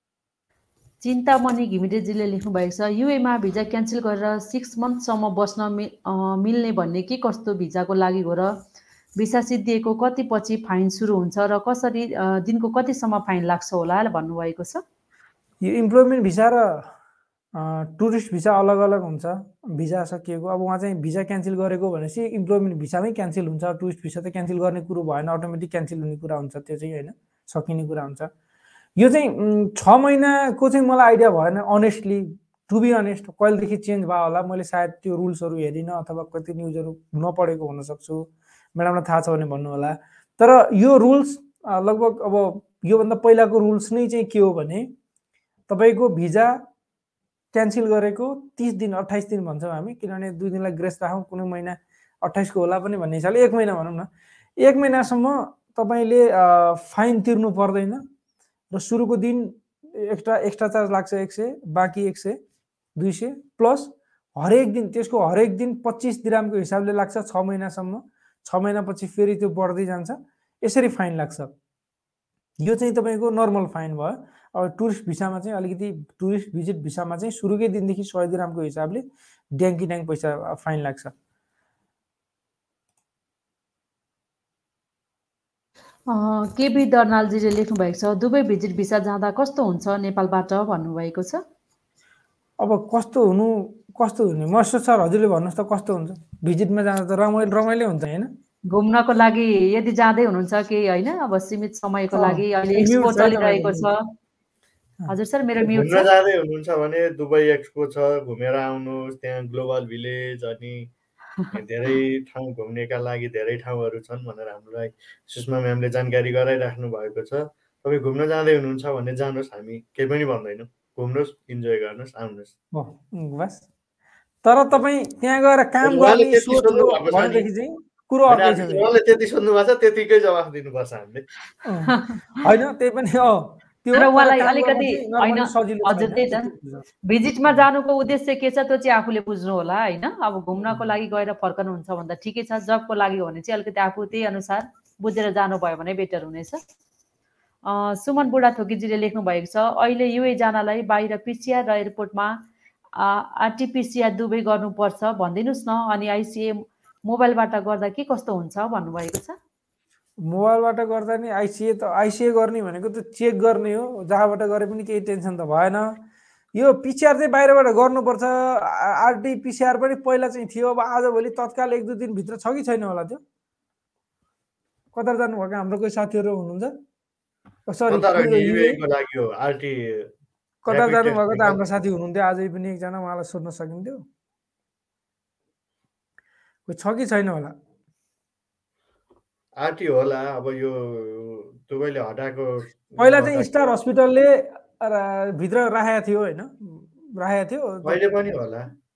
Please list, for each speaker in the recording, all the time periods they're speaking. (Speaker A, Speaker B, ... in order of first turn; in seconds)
Speaker A: 1.0-8.5, 9.2-14.8, 86.1-91.4, 98.7-104.0, 105.1-106.1, 131.9-132.2, 133.9-136.5, 137.1-146.6, 147.7-152.3, 152.9-159.3
Speaker B: 15.6-16.8, 17.6-28.3, 29.0-44.9, 45.7-46.6, 47.5-54.1, 54.6-58.0, 58.7-62.4, 63.0-71.5, 72.6-79.0, 79.6-81.1, 92.6-98.3, 102.1-103.9, 122.7-123.7, 124.4-128.9, 131.6-136.8, 160.3-166.0, 166.6-173.2, 174.9-176.7, 177.7-178.8, 180.7-184.0, 186.7-187.5, 193.0-198.0
Speaker C: 105.7-110.9, 111.5-122.5, 125.8-127.5, 128.3-131.2, 177.9-180.1, 180.7-181.6, 189.6-193.7, 197.8-198.7